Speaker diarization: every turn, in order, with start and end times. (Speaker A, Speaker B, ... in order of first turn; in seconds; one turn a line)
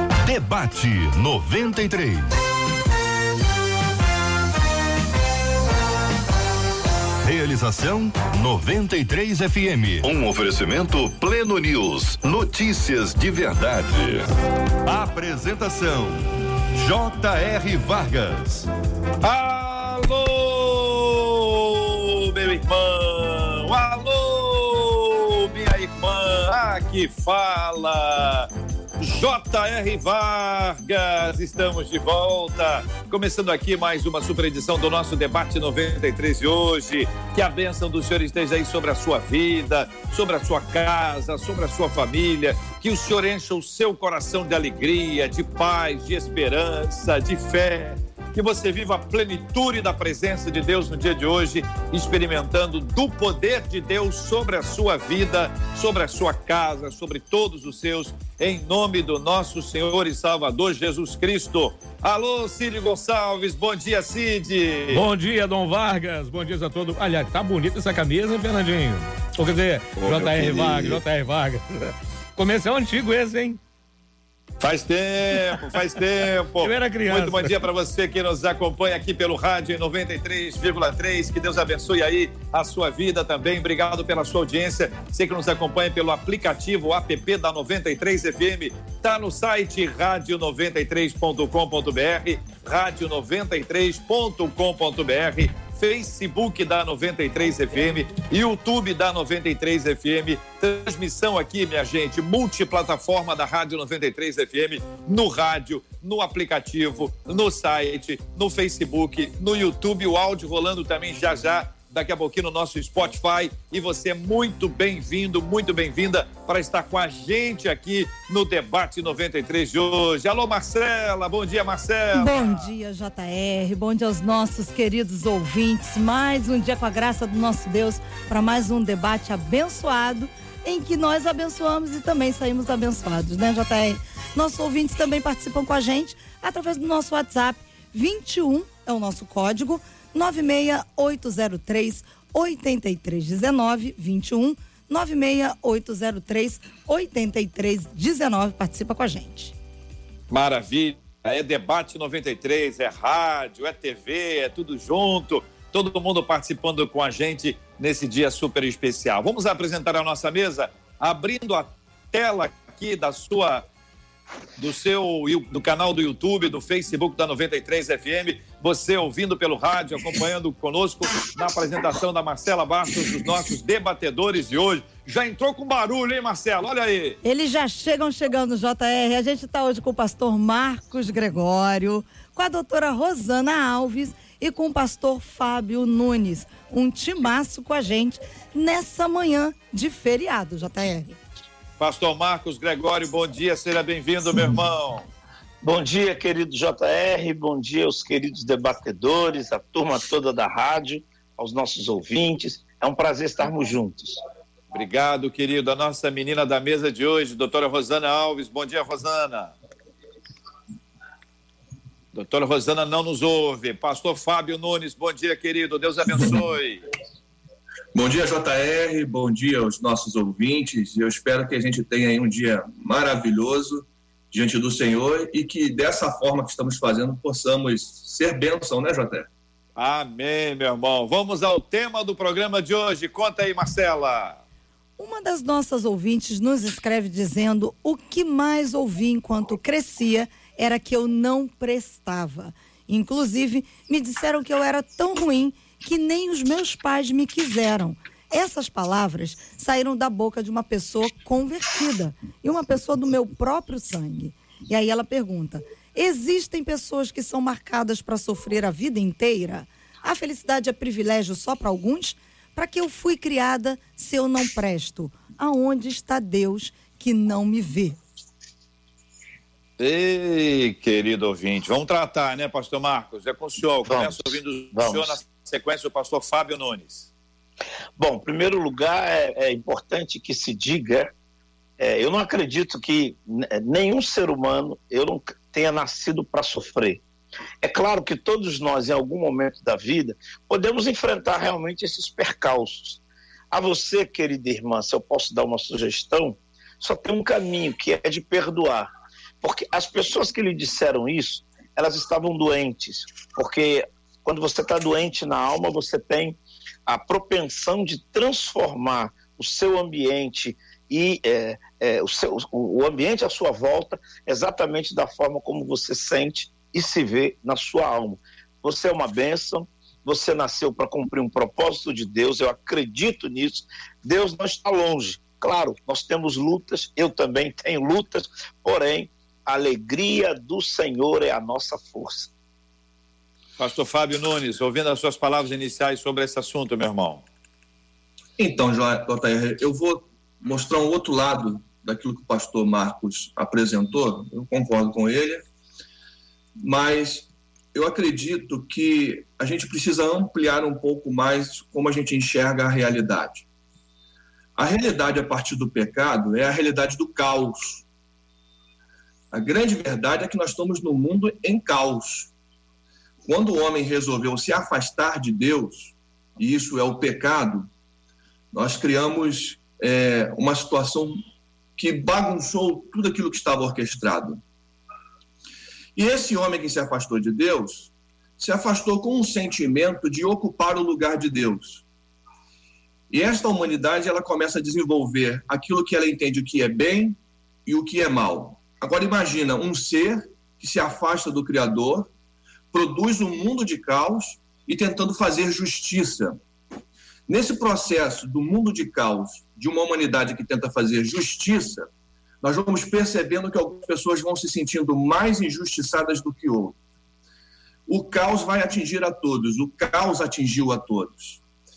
Speaker A: 0.2-2.3
Speaker A: 7.2-14.3
Speaker A: 14.8-18.7
Speaker B: 19.2-65.1
Speaker C: 64.9-73.6
Speaker B: 70.0-71.0
Speaker B: 74.6-122.7
Speaker C: 76.6-77.6
Speaker D: 122.1-149.5
Speaker B: 150.3-163.6
Speaker B: 164.6-177.2
Speaker D: 177.2-191.2
Speaker B: 191.8-195.1
Speaker E: 195.6-204.2
Speaker B: 204.7-209.6
Speaker B: 212.1-216.8
Speaker F: 217.9-229.3
Speaker B: 229.8-234.4
Speaker D: 235.0-268.0
Speaker B: 269.8-277.1
Speaker E: 273.9-275.2
Speaker E: 278.0-281.1
Speaker E: 281.8-287.0
Speaker E: 287.6-293.0
Speaker E: 293.5-298.9
Speaker E: 299.4-332.3
Speaker B: 333.6-337.2
Speaker F: 338.4-345.4
Speaker F: 346.6-353.4
Speaker F: 354.6-357.8
Speaker F: 359.3-362.3
Speaker F: 363.2-367.7
Speaker F: 368.5-371.2
Speaker F: 371.8-374.4
Speaker F: 376.0-381.8
Speaker F: 383.1-392.1
Speaker F: 392.7-396.4
Speaker F: 397.3-401.9
Speaker F: 402.4-406.8
Speaker F: 407.9-411.4